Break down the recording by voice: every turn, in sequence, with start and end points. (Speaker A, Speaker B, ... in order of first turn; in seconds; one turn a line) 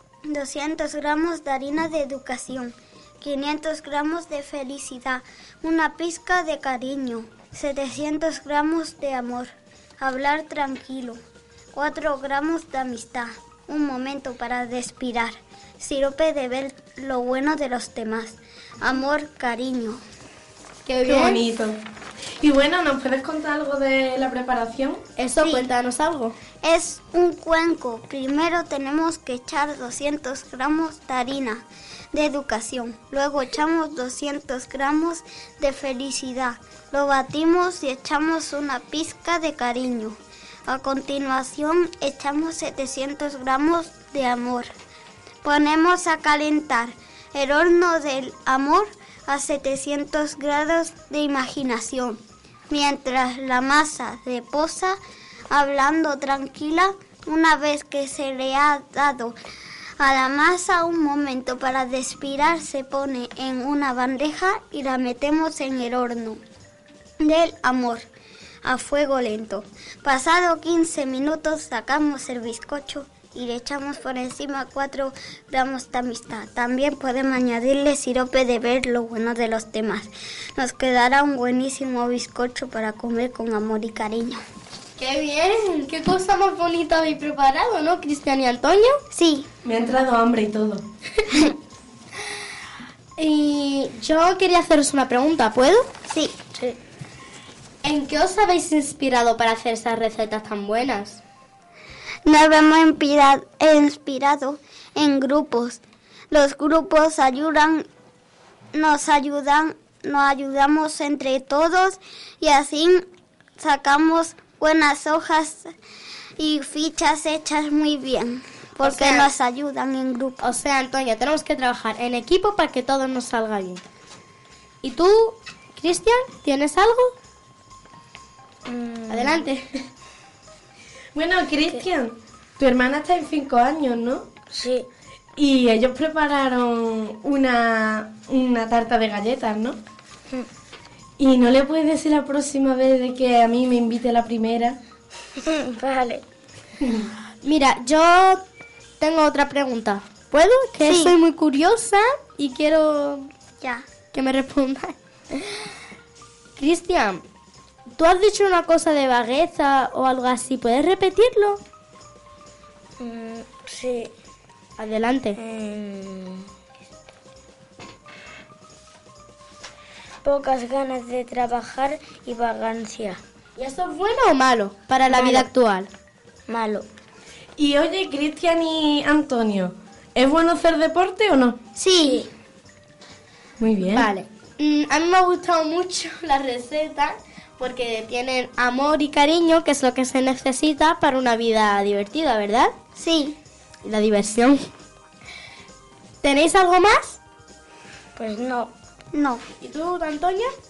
Speaker A: 0.3-11.2
Speaker A: 11.7-20.0
Speaker B: 20.9-21.4
Speaker C: 21.1-21.8
Speaker C: 22.4-25.0
Speaker B: 25.2-26.4
Speaker A: 25.4-25.7
Speaker A: 26.6-40.2
Speaker A: 40.7-44.7
Speaker A: 45.4-55.0
Speaker A: 55.5-59.4
Speaker A: 60.0-66.4
Speaker A: 67.2-68.1
Speaker A: 68.7-84.4
Speaker B: 85.0-89.0
Speaker A: 89.1-89.5
Speaker C: 89.6-90.8
Speaker B: 93.2-95.9
Speaker A: 96.1-96.5
Speaker B: 97.8-101.2
Speaker A: 102.2-107.9
Speaker A: 108.7-113.0
Speaker A: 113.6-115.7
Speaker A: 116.4-120.4
Speaker B: 118.8-119.3
Speaker B: 120.4-123.8
Speaker B: 124.8-127.2
Speaker D: 128.7-129.4
Speaker B: 129.1-129.7
Speaker C: 131.2-134.3
Speaker D: 134.5-134.9
Speaker C: 135.4-139.8
Speaker C: 141.2-144.8
Speaker D: 145.4-146.2
Speaker C: 146.8-147.1
Speaker B: 147.4-148.4
Speaker B: 149.0-153.3
Speaker A: 150.8-151.2
Speaker A: 153.6-153.9
Speaker B: 154.1-155.0
Speaker B: 156.6-157.2
Speaker B: 157.9-161.6
Speaker D: 163.0-164.1
Speaker B: 164.8-165.4
Speaker D: 165.4-166.5
Speaker D: 170.2-173.2
Speaker B: 173.6-175.9
Speaker D: 176.5-176.9
Speaker C: 177.6-181.6
Speaker A: 181.8-182.3
Speaker D: 182.0-182.3
Speaker C: 183.6-184.1
Speaker B: 183.9-192.8
Speaker A: 193.0-193.4
Speaker B: 193.8-194.6
Speaker B: 196.2-197.2
Speaker D: 198.2-198.7
Speaker A: 199.1-199.4
Speaker B: 199.6-200.5